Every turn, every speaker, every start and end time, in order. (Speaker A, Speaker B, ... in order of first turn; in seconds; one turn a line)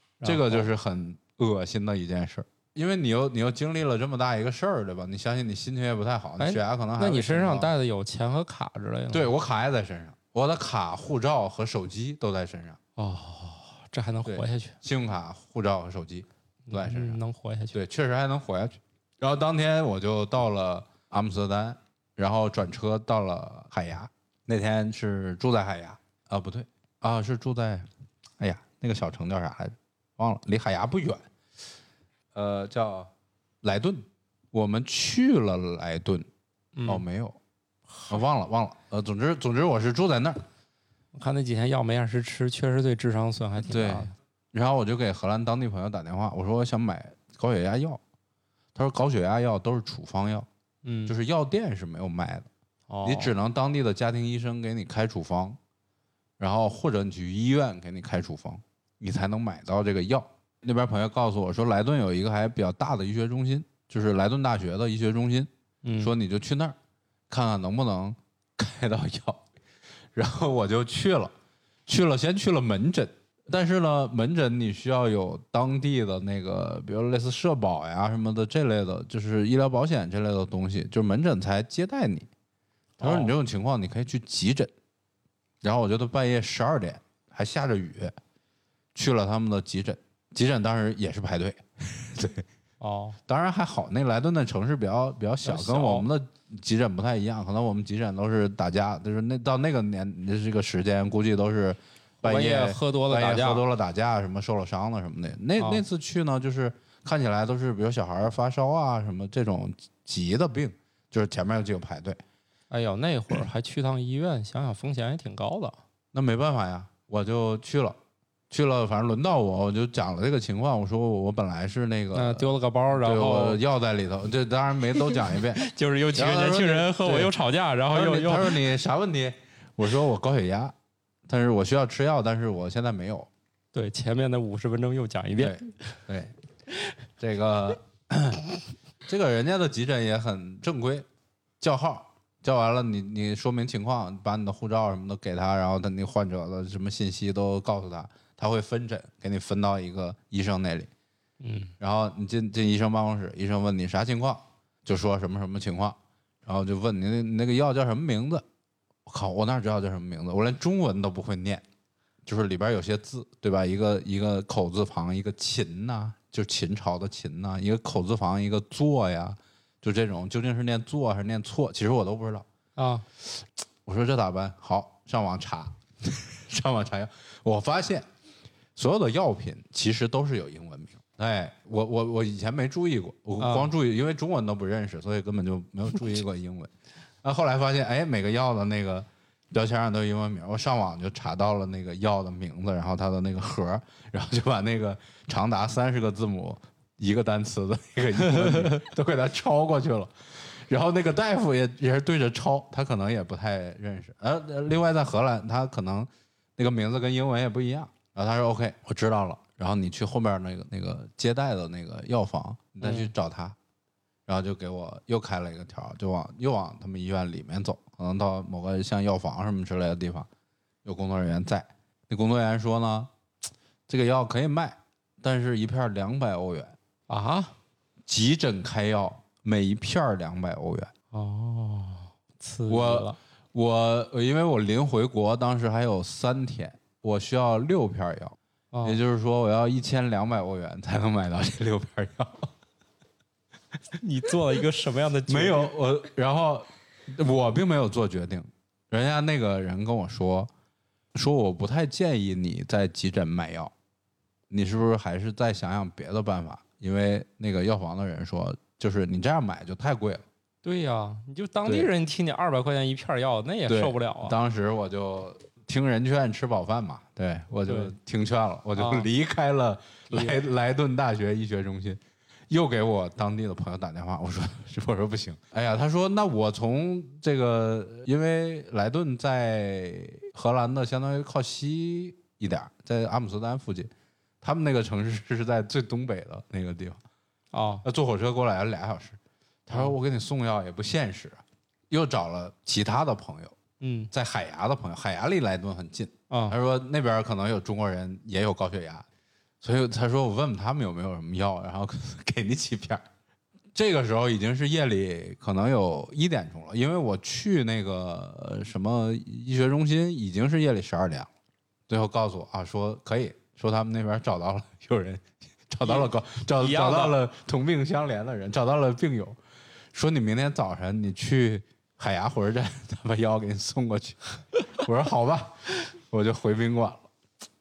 Speaker A: 0.2-0.7
Speaker B: 0.2-7.7
Speaker A: 6.4-9.3
Speaker B: 9.1-12.8
Speaker A: 13.0-14.8
Speaker B: 14.2-17.2
Speaker A: 16.7-17.8
Speaker B: 17.7-27.9
Speaker B: 28.4-31.2
Speaker B: 32.3-33.1
Speaker B: 33.6-36.3
Speaker A: 36.8-37.0
Speaker B: 36.9-37.4
Speaker A: 37.9-38.2
Speaker B: 38.1-40.4
Speaker A: 41.1-44.1
Speaker B: 43.7-48.0
Speaker B: 48.7-50.5
Speaker A: 50.8-51.1
Speaker B: 51.0-52.5
Speaker A: 52.9-53.3
Speaker B: 53.0-55.6
Speaker B: 56.4-66.8
Speaker A: 65.8-66.1
Speaker B: 67.3-69.5
Speaker B: 70.1-71.3
Speaker B: 71.9-82.3
Speaker A: 83.0-83.3
Speaker B: 83.0-84.7
Speaker B: 85.6-88.1
Speaker B: 88.9-92.4
Speaker A: 92.8-93.2
Speaker B: 93.3-112.2
Speaker A: 95.4-96.1
Speaker A: 102.2-103.6
Speaker A: 105.6-105.8
Speaker A: 112.7-115.8
Speaker B: 116.1-118.0
Speaker B: 118.5-127.3
Speaker A: 122.1-123.6
Speaker A: 125.6-128.6
Speaker B: 127.9-130.7
Speaker B: 131.3-133.3
Speaker A: 133.7-135.7
Speaker B: 135.4-136.3
Speaker B: 137.2-138.5
Speaker B: 139.1-141.1
Speaker B: 141.6-150.9
Speaker A: 151.4-151.7
Speaker B: 151.8-158.4
Speaker B: 159.1-161.6
Speaker B: 162.2-172.5
Speaker A: 172.8-173.0
Speaker B: 173.3-178.1
Speaker B: 178.8-186.7
Speaker A: 183.4-183.7
Speaker B: 187.2-213.6
Speaker A: 198.2-198.8
Speaker A: 212.8-213.1
Speaker B: 214.3-220.3
Speaker B: 220.8-223.1
Speaker B: 223.9-226.8
Speaker A: 227.1-227.5
Speaker B: 228.1-230.9
Speaker A: 231.1-233.2
Speaker B: 232.7-242.5
Speaker A: 238.7-239.0
Speaker A: 243.9-245.7
Speaker B: 245.3-250.5
Speaker B: 251.1-253.7
Speaker B: 254.5-260.2
Speaker A: 260.6-264.4
Speaker B: 263.7-283.9
Speaker A: 267.7-267.9
Speaker A: 268.7-269.1
Speaker A: 270.1-270.4
Speaker B: 284.4-287.0
Speaker A: 287.5-287.8
Speaker B: 287.8-293.6
Speaker A: 293.8-294.1
Speaker B: 294.1-299.1
Speaker A: 296.3-296.6
Speaker B: 299.6-303.0
Speaker B: 303.7-311.3
Speaker B: 311.9-319.4
Speaker A: 315.8-317.2
Speaker B: 319.9-324.2
Speaker B: 324.7-327.1